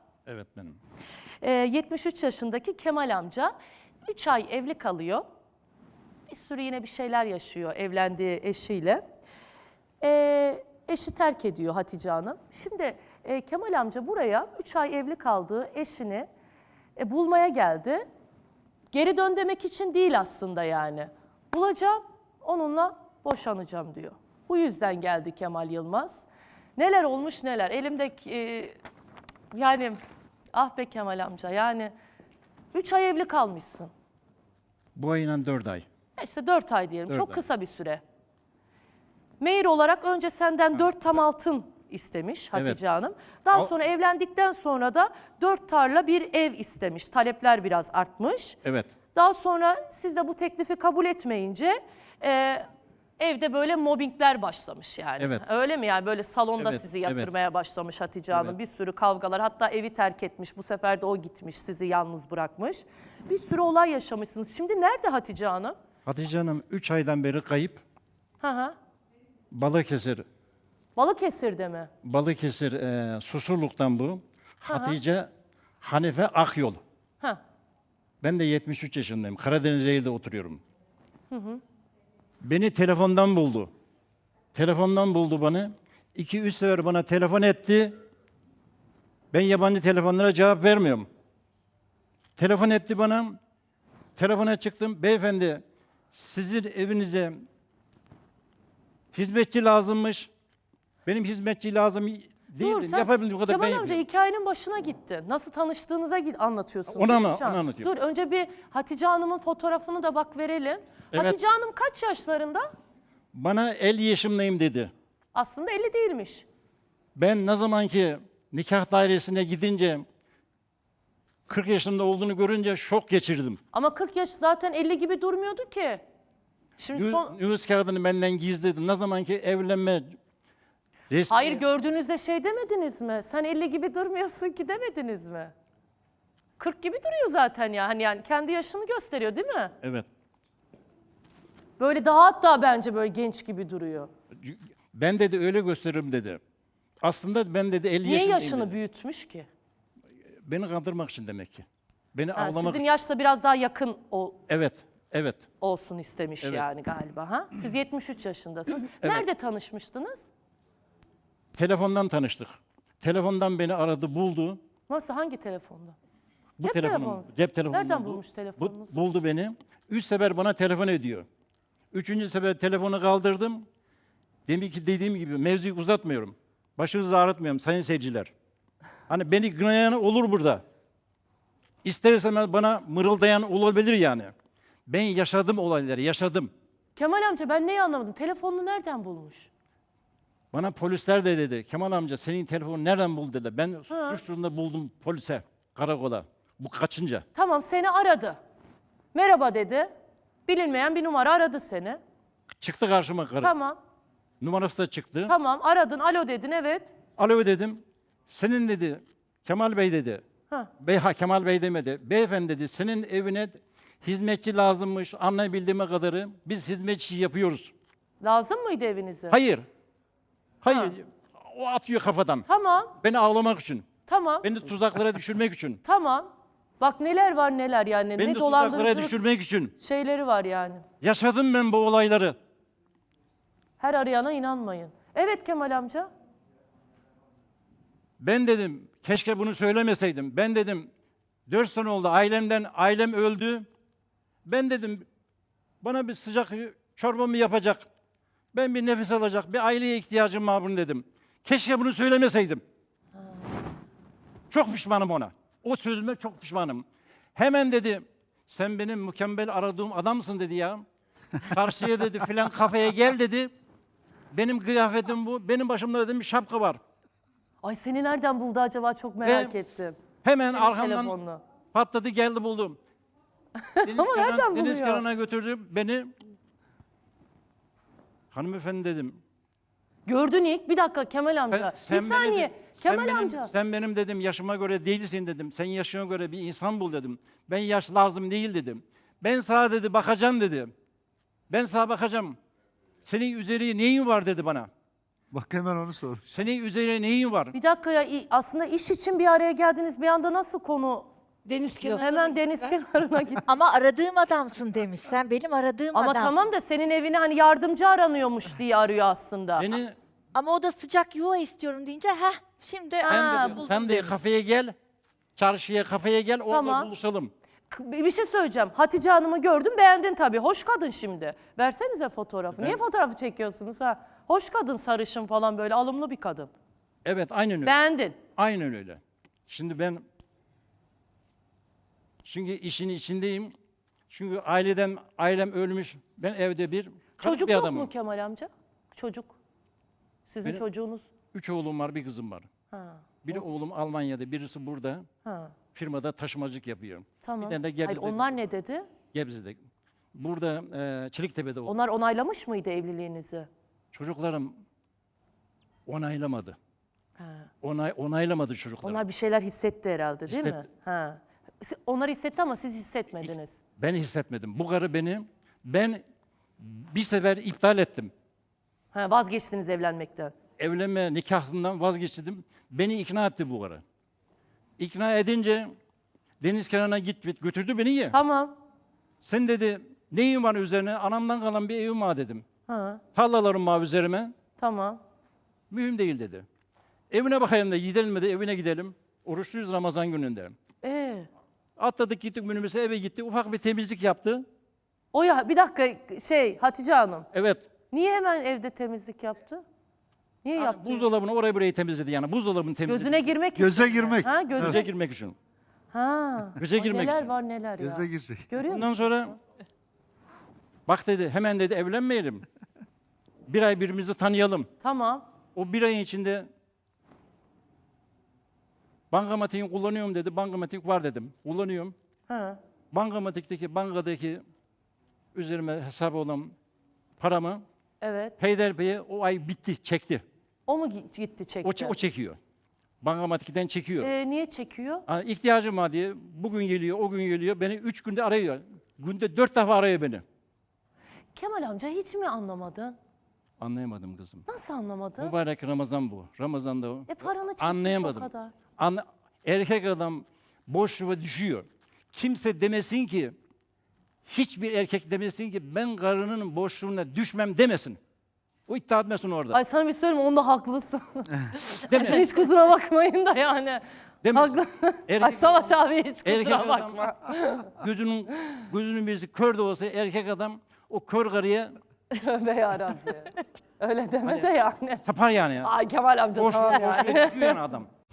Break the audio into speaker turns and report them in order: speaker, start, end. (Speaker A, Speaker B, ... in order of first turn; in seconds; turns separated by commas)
Speaker A: 0.3-0.8, Speaker B: 1.4-3.5, Speaker B: 4.0-5.2, Speaker B: 6.3-9.0, Speaker B: 10.0-16.3, Speaker B: 17.0-18.0, Speaker B: 18.9-28.8, Speaker B: 29.5-30.0, Speaker B: 30.5-31.9, Speaker B: 32.7-33.9, Speaker A: 35.0-35.8, Speaker B: 36.2-38.0, Speaker A: 37.1-37.4, Speaker B: 39.4-48.6, Speaker A: 42.5-42.8, Speaker A: 48.6-48.9, Speaker B: 49.1-52.6, Speaker B: 53.2-65.7, Speaker A: 56.6-57.3, Speaker A: 58.3-58.5, Speaker A: 66.0-67.8, Speaker B: 68.4-68.8, Speaker A: 69.5-70.2, Speaker B: 71.0-71.9, Speaker A: 72.0-75.3, Speaker B: 74.7-75.0, Speaker A: 75.8-76.8, Speaker A: 78.2-80.6, Speaker B: 81.3-81.6, Speaker A: 82.4-83.7, Speaker A: 84.5-87.9, Speaker A: 89.3-91.1, Speaker A: 92.4-93.4, Speaker A: 94.2-95.6, Speaker A: 96.1-97.3, Speaker A: 99.1-100.3, Speaker A: 101.0-104.0, Speaker B: 102.6-112.7, Speaker A: 106.9-107.9, Speaker A: 113.3-114.9, Speaker B: 115.3-116.5, Speaker A: 117.2-120.0, Speaker A: 121.5-123.6, Speaker B: 123.7-126.0, Speaker B: 126.8-127.3, Speaker A: 126.9-130.2, Speaker A: 131.1-131.6, Speaker B: 131.3-135.5, Speaker B: 136.6-139.7, Speaker A: 139.8-140.1, Speaker B: 141.8-144.1, Speaker A: 144.4-146.4, Speaker A: 147.0-148.8, Speaker B: 148.0-149.5, Speaker A: 150.4-152.8, Speaker B: 152.3-154.4, Speaker A: 154.5-155.4, Speaker B: 155.6-160.2, Speaker A: 159.0-159.2, Speaker A: 161.6-164.6, Speaker B: 164.9-165.9, Speaker A: 166.6-171.2, Speaker B: 166.6-169.0, Speaker A: 171.9-173.6, Speaker A: 174.5-178.3, Speaker A: 179.1-180.6, Speaker A: 181.8-184.3, Speaker A: 184.9-186.5, Speaker B: 186.9-189.5, Speaker A: 190.5-197.2, Speaker B: 193.9-194.2, Speaker B: 197.3-198.4, Speaker B: 199.1-199.9, Speaker B: 200.5-202.0, Speaker A: 202.6-203.5, Speaker B: 203.4-203.8, Speaker A: 204.4-205.3, Speaker B: 205.3-206.9, Speaker A: 207.2-210.2, Speaker A: 210.8-217.7, Speaker B: 218.2-219.3, Speaker A: 219.3-219.6, Speaker A: 220.6-222.5, Speaker B: 220.7-220.9, Speaker B: 222.5-222.9, Speaker A: 223.0-223.8, Speaker B: 224.1-224.5, Speaker A: 224.4-225.8, Speaker B: 225.8-226.3, Speaker B: 226.8-229.1, Speaker A: 228.2-229.7, Speaker B: 229.8-230.8, Speaker A: 231.0-232.3, Speaker B: 233.8-236.1, Speaker A: 238.2-240.9, Speaker A: 241.5-243.7, Speaker A: 244.4-245.1, Speaker A: 245.8-247.9, Speaker A: 248.5-252.6, Speaker A: 254.5-256.8, Speaker A: 257.4-260.8, Speaker A: 261.4-263.5, Speaker A: 264.3-266.8, Speaker B: 267.6-270.0, Speaker A: 269.2-269.6, Speaker A: 270.2-271.1, Speaker B: 270.5-271.4, Speaker A: 271.7-272.8, Speaker B: 273.6-275.0, Speaker A: 273.8-276.1, Speaker A: 278.3-279.2, Speaker B: 280.1-283.5, Speaker A: 281.5-290.7, Speaker A: 291.5-292.3, Speaker A: 293.0-294.7, Speaker C: 295.3-296.2, Speaker A: 296.3-297.5, Speaker B: 297.5-301.1, Speaker D: 301.4-302.2, Speaker B: 301.8-303.4, Speaker D: 303.4-306.4, Speaker B: 305.9-309.7, Speaker A: 309.6-309.9, Speaker D: 310.3-314.1, Speaker B: 313.0-313.7, Speaker A: 313.1-314.7, Speaker A: 315.4-317.3, Speaker B: 316.5-316.9, Speaker B: 317.7-326.5, Speaker A: 327.0-327.7, Speaker B: 327.6-328.2, Speaker A: 328.4-330.0, Speaker A: 332.2-333.5, Speaker A: 334.1-337.9, Speaker B: 337.2-339.4, Speaker B: 340.3-341.1, Speaker A: 341.3-342.5, Speaker B: 342.7-343.4, Speaker A: 343.2-345.1, Speaker B: 345.2-345.5, Speaker A: 345.7-348.4, Speaker B: 347.2-348.9, Speaker A: 349.1-349.6, Speaker A: 350.1-351.7, Speaker B: 351.7-353.5, Speaker A: 353.9-354.5, Speaker A: 355.9-356.6, Speaker B: 357.2-357.5, Speaker A: 357.6-359.0, Speaker B: 358.8-363.6, Speaker A: 360.3-360.6, Speaker A: 363.2-366.0, Speaker A: 366.6-368.1, Speaker B: 368.9-370.3, Speaker A: 370.6-373.8, Speaker A: 374.8-375.7, Speaker A: 376.4-378.1, Speaker B: 378.1-378.5, Speaker A: 379.2-382.4, Speaker B: 382.7-383.0, Speaker A: 383.1-384.3, Speaker B: 384.6-385.0, Speaker A: 385.7-386.4, Speaker A: 387.1-390.5, Speaker B: 390.8-391.3, Speaker A: 391.8-394.4, Speaker B: 395.1-397.3, Speaker A: 397.3-397.6, Speaker B: 397.9-399.6, Speaker B: 400.4-401.1, Speaker A: 400.5-403.3, Speaker B: 402.8-404.9, Speaker C: 403.5-404.5, Speaker A: 404.6-405.3, Speaker B: 405.9-408.9, Speaker A: 406.6-407.2, Speaker C: 407.8-408.5, Speaker A: 408.6-409.4, Speaker A: 410.9-412.4, Speaker A: 413.5-414.7, Speaker B: 414.8-415.2, Speaker A: 415.5-416.5, Speaker A: 419.1-421.9, Speaker B: 422.3-422.6, Speaker A: 422.9-424.4, Speaker A: 425.3-426.5, Speaker A: 427.2-427.6, Speaker B: 428.0-428.3, Speaker A: 428.4-430.2, Speaker B: 430.7-431.9, Speaker A: 431.6-432.4, Speaker A: 433.0-434.1, Speaker B: 434.0-435.0, Speaker A: 435.1-440.2, Speaker B: 441.3-442.9, Speaker A: 443.6-444.4, Speaker B: 444.5-445.3, Speaker A: 445.2-453.3, Speaker B: 447.1-448.5, Speaker A: 454.3-458.0, Speaker A: 458.7-459.6, Speaker B: 459.5-467.7, Speaker A: 461.9-462.2, Speaker A: 464.2-465.7, Speaker A: 466.2-467.1, Speaker A: 467.7-471.7, Speaker B: 472.1-475.0, Speaker A: 474.2-474.5, Speaker A: 475.0-475.7, Speaker B: 475.6-477.6, Speaker A: 476.3-477.9